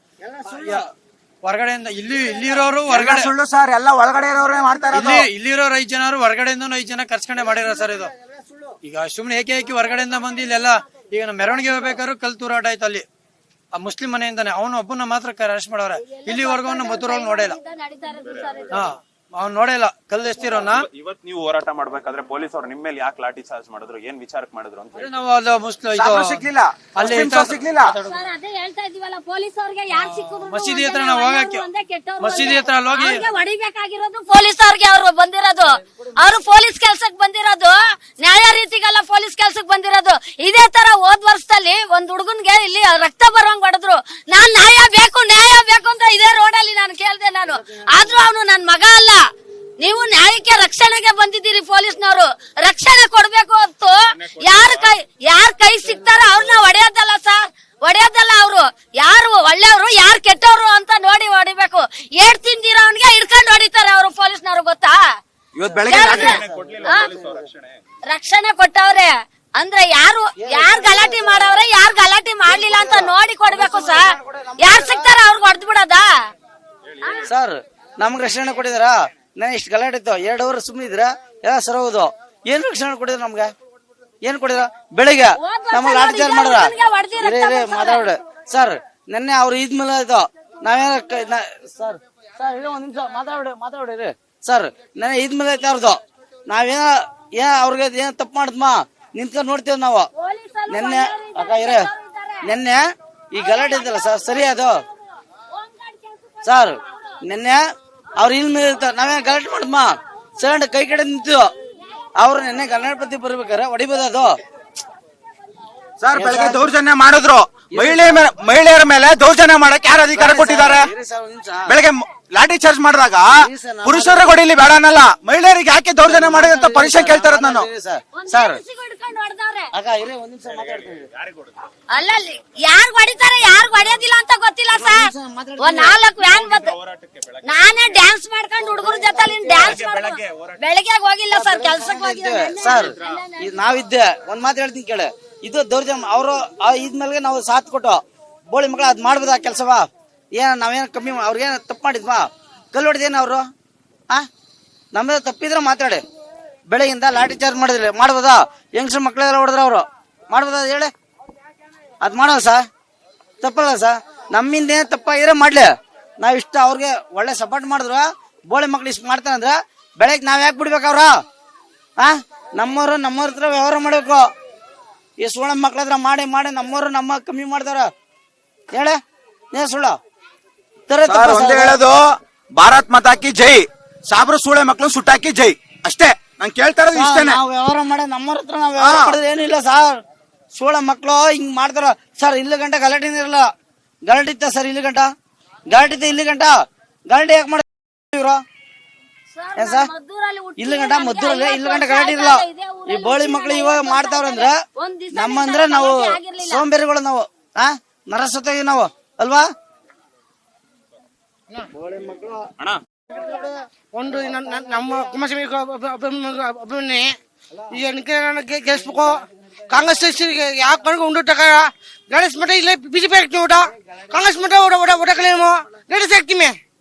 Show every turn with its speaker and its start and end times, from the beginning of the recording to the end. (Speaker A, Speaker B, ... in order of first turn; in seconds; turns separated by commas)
Speaker A: 0.3-0.8, Speaker B: 0.5-0.9, Speaker B: 1.4-3.3, Speaker C: 2.9-5.2, Speaker B: 4.9-8.1, Speaker B: 8.8-13.0, Speaker B: 13.7-17.6, Speaker D: 16.1-18.9, Speaker B: 18.7-20.8, Speaker E: 20.4-25.1, Speaker B: 24.9-27.9, Speaker C: 25.9-28.0, Speaker D: 28.0-49.2, Speaker B: 29.9-31.6, Speaker B: 32.2-33.2, Speaker D: 49.8-65.0, Speaker E: 54.2-54.9, Speaker C: 65.6-66.4, Speaker D: 65.8-67.1, Speaker A: 65.9-66.3, Speaker E: 66.0-67.7, Speaker D: 68.1-74.1, Speaker A: 70.4-71.5, Speaker A: 72.5-75.1, Speaker D: 74.6-76.1, Speaker D: 77.0-77.3, Speaker A: 77.2-83.5, Speaker A: 84.2-100.1, Speaker D: 85.4-88.1, Speaker D: 100.2-102.5, Speaker A: 100.7-101.9, Speaker A: 102.4-104.8, Speaker D: 103.3-104.8, Speaker D: 105.5-106.7, Speaker A: 106.4-107.6, Speaker A: 108.2-111.5, Speaker A: 112.2-114.3, Speaker C: 116.0-120.9, Speaker A: 116.1-116.6, Speaker A: 117.7-118.3, Speaker A: 120.1-121.8, Speaker C: 121.7-127.7, Speaker A: 123.4-124.4, Speaker A: 126.0-128.6, Speaker D: 128.2-129.7, Speaker A: 129.7-131.0, Speaker E: 130.5-131.5, Speaker D: 131.9-135.0, Speaker A: 134.7-136.0, Speaker D: 135.6-136.7, Speaker E: 136.3-137.4, Speaker D: 137.4-143.7, Speaker A: 138.8-139.5, Speaker E: 139.5-140.6, Speaker A: 141.3-148.0, Speaker E: 142.7-143.2, Speaker A: 148.5-153.5, Speaker A: 154.9-156.0, Speaker A: 156.7-160.9, Speaker A: 162.0-162.6, Speaker A: 163.4-171.1, Speaker A: 172.0-174.3, Speaker A: 175.2-177.9, Speaker A: 178.7-179.0, Speaker A: 179.5-180.0, Speaker A: 180.9-181.8, Speaker C: 181.0-187.4, Speaker A: 186.9-190.0, Speaker C: 188.8-189.2, Speaker A: 190.5-193.5, Speaker A: 194.1-195.1, Speaker A: 195.7-196.6, Speaker A: 197.1-198.4, Speaker D: 199.3-206.6, Speaker A: 199.6-199.9, Speaker A: 200.6-204.6, Speaker A: 205.1-209.5, Speaker A: 211.7-212.4, Speaker F: 213.9-217.1, Speaker F: 217.7-226.6